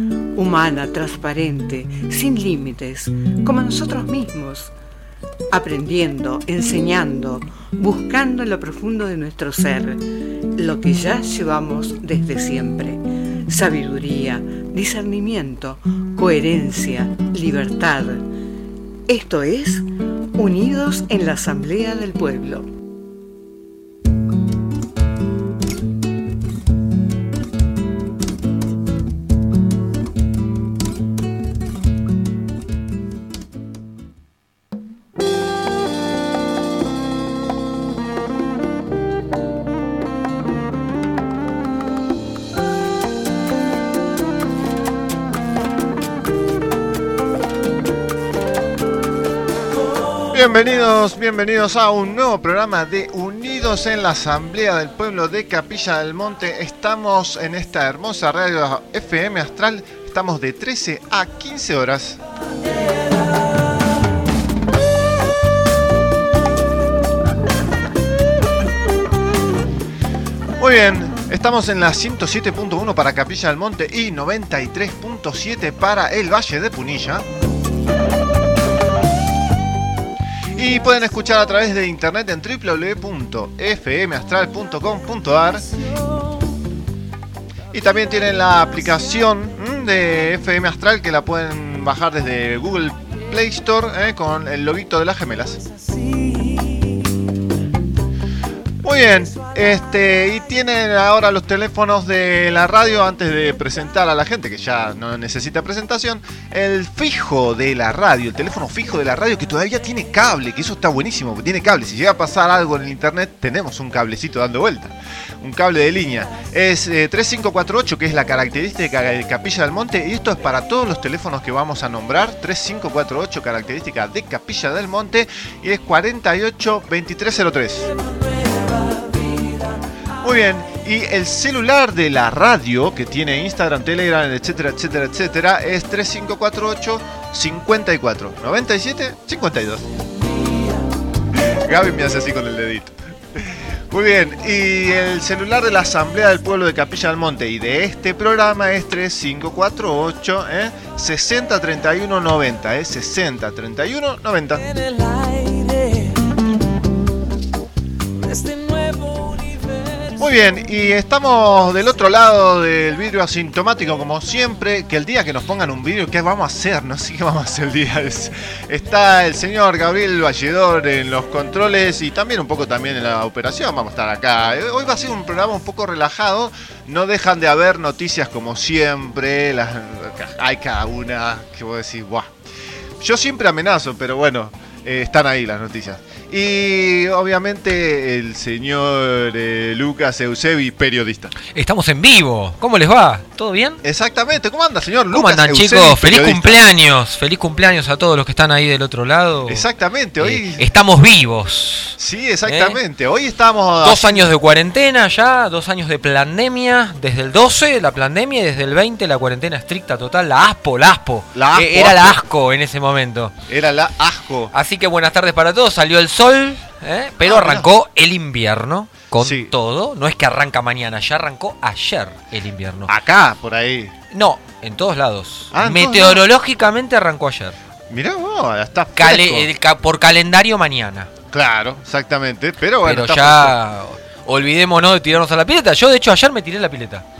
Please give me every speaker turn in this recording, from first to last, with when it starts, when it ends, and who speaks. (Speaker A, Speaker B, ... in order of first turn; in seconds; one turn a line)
Speaker A: 0.3-4.7
Speaker A: 5.5-10.0
Speaker A: 10.6-18.3
Speaker A: 19.1-22.7
Speaker B: 50.3-62.2
Speaker B: 70.6-77.3
Speaker B: 80.5-85.7
Speaker B: 87.7-95.6
Speaker B: 98.8-127.9
Speaker B: 130.2-139.9
Speaker B: 141.4-154.7
Speaker B: 160.2-182.3
Speaker B: 183.0-191.3
Speaker C: 191.5-193.8
Speaker B: 193.8-196.6
Speaker C: 195.1-199.7
Speaker B: 199.5-200.7
Speaker C: 200.2-202.8
Speaker B: 202.0-204.3
Speaker C: 203.8-213.3
Speaker B: 211.3-212.2
Speaker B: 213.5-214.5
Speaker C: 214.5-222.9
Speaker B: 217.2-217.7
Speaker B: 219.2-219.5
Speaker B: 222.9-223.9
Speaker C: 224.1-227.6
Speaker B: 225.5-226.2
Speaker B: 227.9-229.5
Speaker C: 229.0-231.1
Speaker B: 231.3-233.6
Speaker C: 232.8-237.1